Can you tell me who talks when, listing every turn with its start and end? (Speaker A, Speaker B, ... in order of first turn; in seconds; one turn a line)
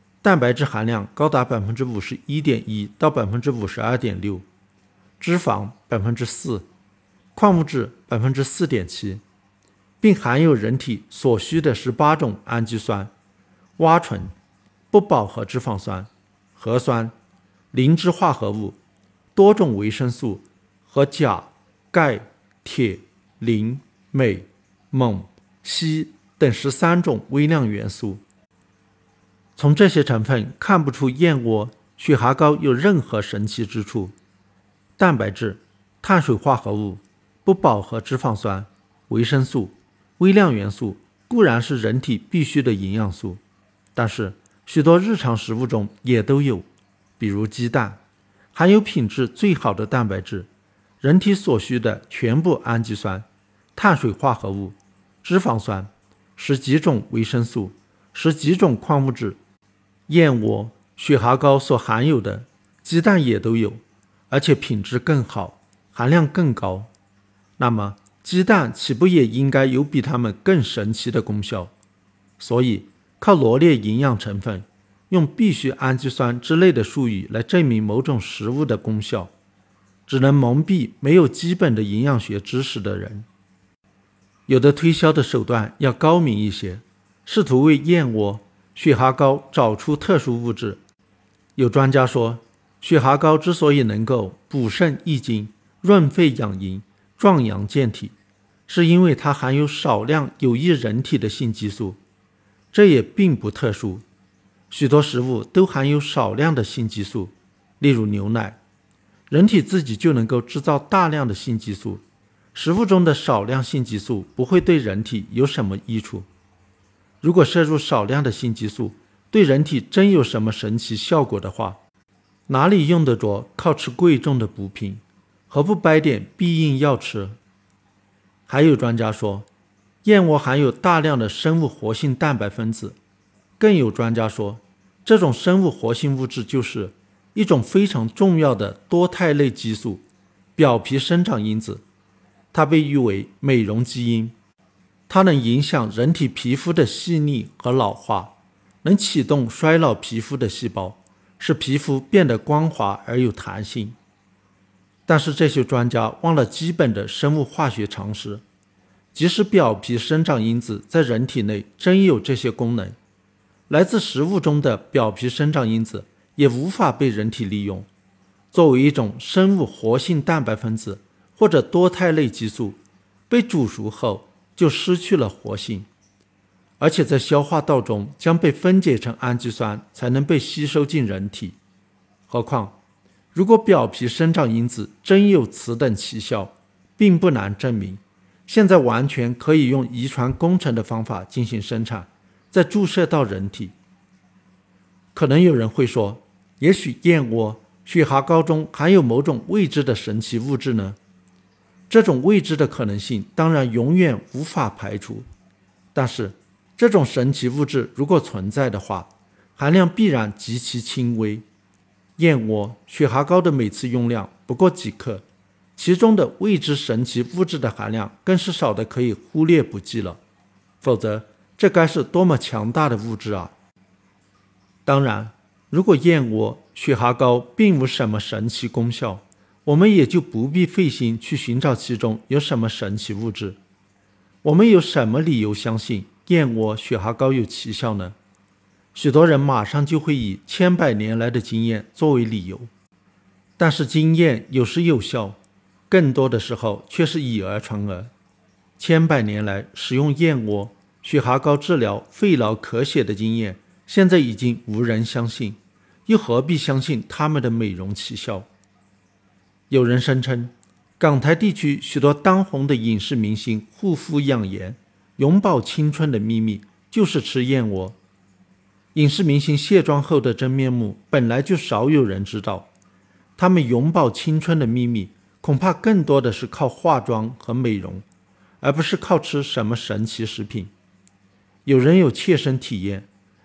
Speaker A: 0.2-4.5
Speaker A: 5.2-6.7
Speaker A: 7.3-9.2
Speaker A: 10.0-13.1
Speaker A: 13.8-14.3
Speaker A: 14.9-17.1
Speaker A: 17.7-18.8
Speaker A: 19.4-28.2
Speaker A: 29.6-34.1
Speaker A: 35.0-43.4
Speaker A: 44.0-46.7
Speaker A: 47.2-48.0
Speaker A: 48.5-50.5
Speaker A: 51.0-59.4
Speaker A: 60.1-66.9
Speaker A: 67.6-71.7
Speaker A: 72.4-79.3
Speaker A: 80.1-83.3
Speaker A: 84.5-90.8
Speaker A: 91.6-98.1
Speaker A: 98.7-102.0
Speaker A: 102.7-104.0
Speaker A: 104.7-108.6
Speaker A: 109.3-112.0
Speaker A: 112.5-116.3
Speaker A: 117.2-121.8
Speaker A: 122.5-127.4
Speaker A: 128.5-129.5
Speaker A: 130.0-133.0
Speaker A: 133.6-140.0
Speaker A: 140.6-141.8
Speaker A: 142.5-144.3
Speaker A: 145.1-154.0
Speaker A: 155.1-158.4
Speaker A: 159.1-163.0
Speaker A: 163.7-167.9
Speaker A: 168.5-175.9
Speaker A: 176.8-181.6
Speaker A: 182.3-182.8
Speaker A: 183.3-193.7
Speaker A: 195.1-201.0
Speaker A: 201.9-205.3
Speaker A: 205.9-211.4
Speaker A: 212.2-215.2
Speaker A: 215.8-220.2
Speaker A: 220.8-223.5
Speaker A: 224.9-233.6
Speaker A: 234.4-238.2
Speaker A: 238.9-242.7
Speaker A: 243.6-245.4
Speaker A: 245.9-248.1
Speaker A: 248.8-258.5
Speaker A: 259.7-268.0
Speaker A: 268.9-272.7
Speaker A: 273.4-278.0
Speaker A: 278.6-280.7
Speaker A: 281.6-283.1